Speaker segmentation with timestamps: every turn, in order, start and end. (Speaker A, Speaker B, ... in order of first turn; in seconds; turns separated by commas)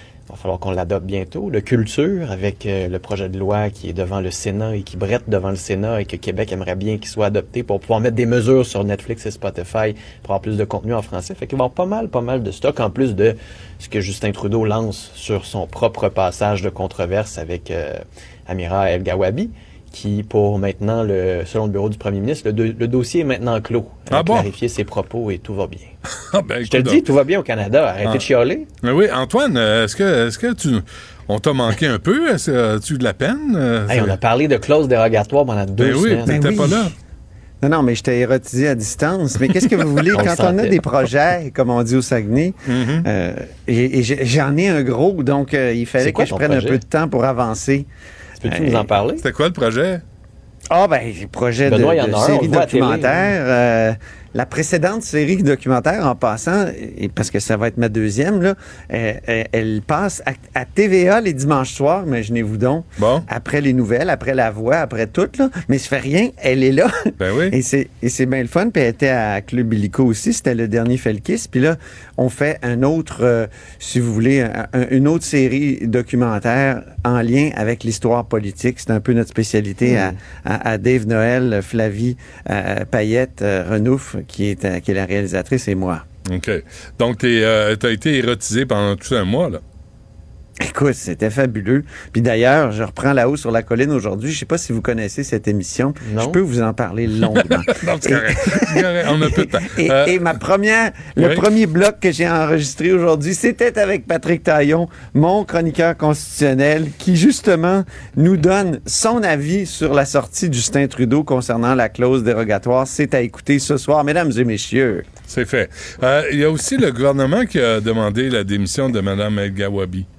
Speaker A: 0.3-25.9, Speaker B: 24.1-24.5, Speaker B: 26.3-27.1, Speaker A: 26.7-28.7, Speaker B: 28.8-34.2, Speaker A: 33.9-36.7, Speaker B: 35.8-36.9, Speaker C: 36.3-36.9, Speaker C: 37.6-47.9, Speaker A: 40.1-40.8, Speaker B: 42.7-43.1, Speaker A: 46.0-46.8, Speaker A: 48.4-49.2, Speaker C: 48.5-48.9, Speaker B: 49.2-50.0, Speaker C: 50.7-67.0, Speaker A: 51.7-53.3, Speaker B: 63.0-63.3, Speaker B: 67.2-67.6, Speaker C: 67.5-86.0, Speaker A: 79.9-80.2, Speaker B: 86.3-89.6, Speaker C: 90.6-115.0, Speaker A: 96.0-96.4, Speaker B: 97.3-100.4, Speaker B: 101.2-101.5, Speaker B: 115.3-120.1